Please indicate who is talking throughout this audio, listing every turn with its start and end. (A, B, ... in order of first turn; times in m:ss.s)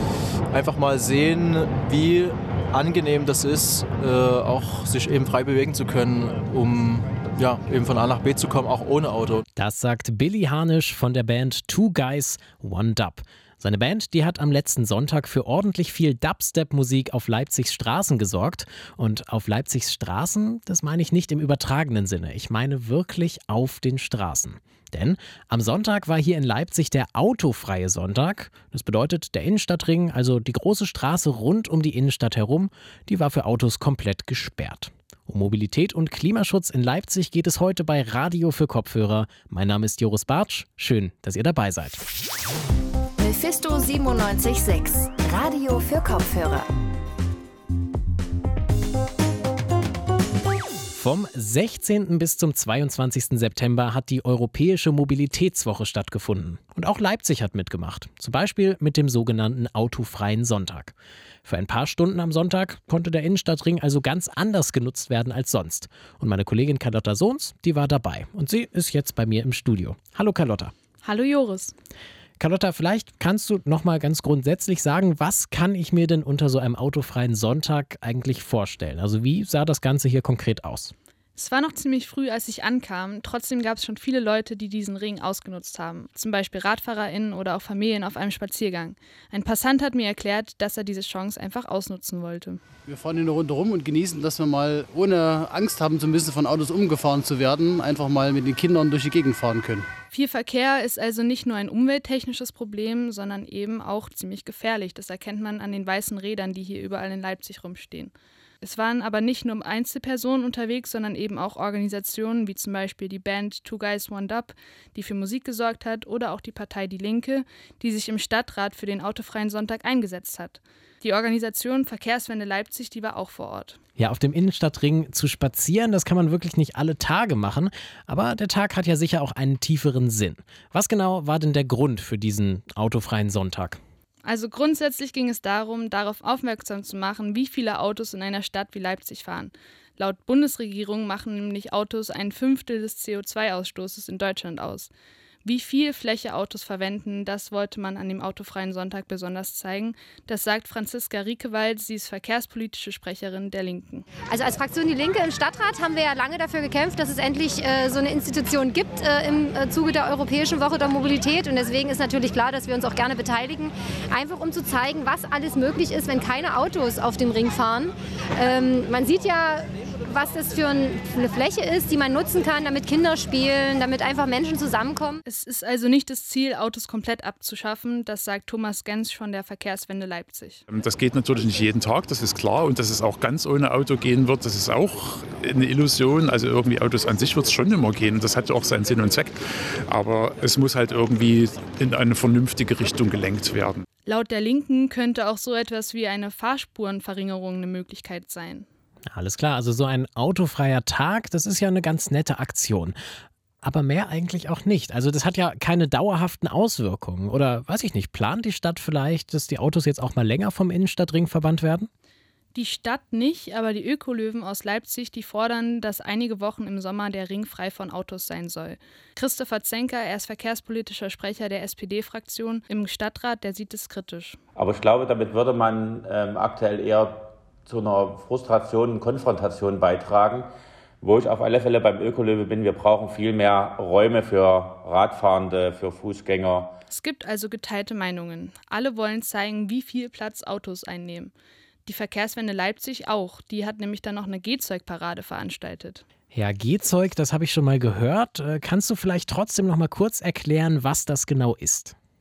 0:00.5-0:09.4 A
0:09.6-0:42.0 B
0:43.2-0:46.7 C
0:50.9-1:10.7 B
1:11.0-1:11.8 D
1:12.4-1:20.9 B
1:21.4-1:32.6 D
1:32.9-1:39.9 E
1:40.1-2:03.8 D
2:04.0-2:13.8 B
2:14.2-2:24.9 D
2:25.4-2:34.1 D
2:34.3-2:55.2 F
2:55.2-3:00.6 D
3:00.7-3:09.4 G
3:09.9-3:13.8 G
3:14.1-3:18.7 D
3:19.1-3:23.0 B
3:23.6-3:31.9 B
3:32.6-3:44.4 D
3:44.6-3:50.5 H
3:51.0-3:56.7 H
3:56.9-4:01.3 D
4:01.9-4:06.0 D
4:06.3-4:12.0 B